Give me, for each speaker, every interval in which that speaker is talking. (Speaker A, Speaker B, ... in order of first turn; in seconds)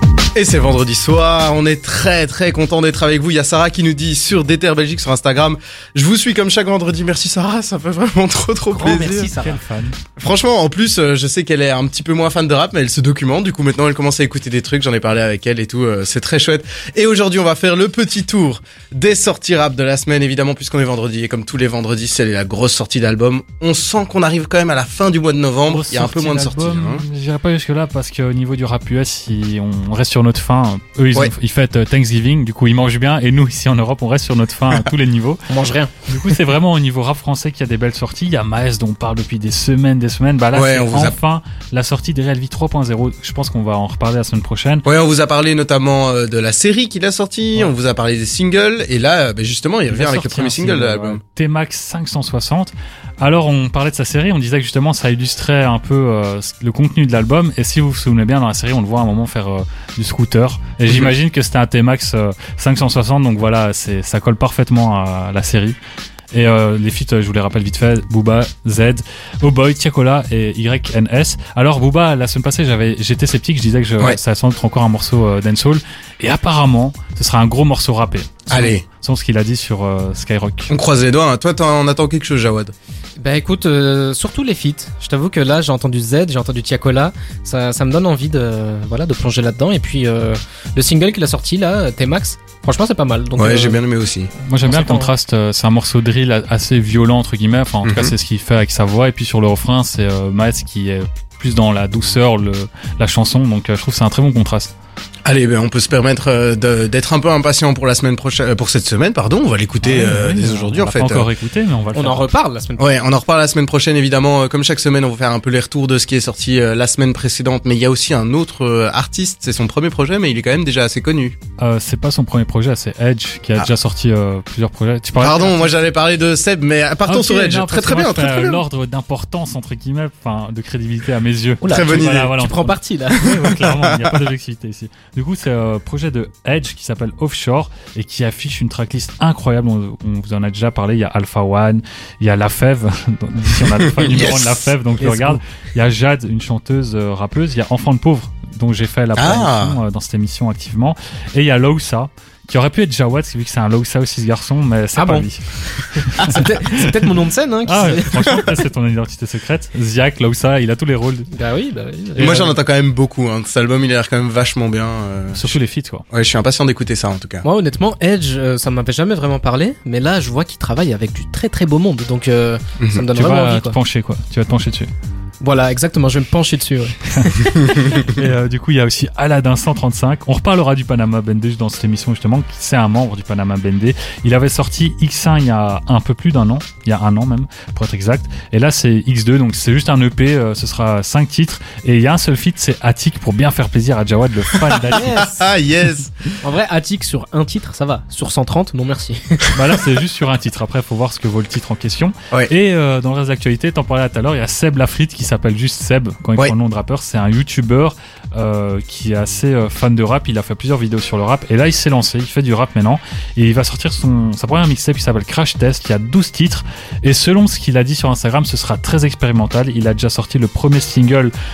Speaker A: 0.3-9.3, 10.2-27.0, 40.5-41.2, 44.9-51.2, 60.9-61.1, 78.5-78.8, 80.7-82.7, 93.4-94.3, 97.8-98.1, 105.2-111.3, 112.8-121.4, 125.2-128.6, 131.7-132.3, 133.2-134.2, 143.7-144.7, 149.2-149.8, 162.2-165.5, 166.1-167.5, 172.8-173.0, 194.6-196.1
Speaker B: 8.7-9.6, 35.5-36.1, 83.2-93.8, 94.7-95.1, 112.0-113.0, 131.6-133.3, 145.0-145.4, 155.0-155.3, 156.2-158.6, 161.3-162.6, 167.4-173.8, 175.4-178.0, 194.9-195.4, 196.4-199.5
Speaker C: 9.0-10.0, 25.7-35.4, 36.0-44.9, 49.9-65.8, 66.3-80.7, 94.4-104.7, 109.8-112.2, 121.6-125.7, 127.0-156.5, 157.7-161.3, 165.3-166.1, 173.1-174.9, 177.6-195.1, 199.5-221.3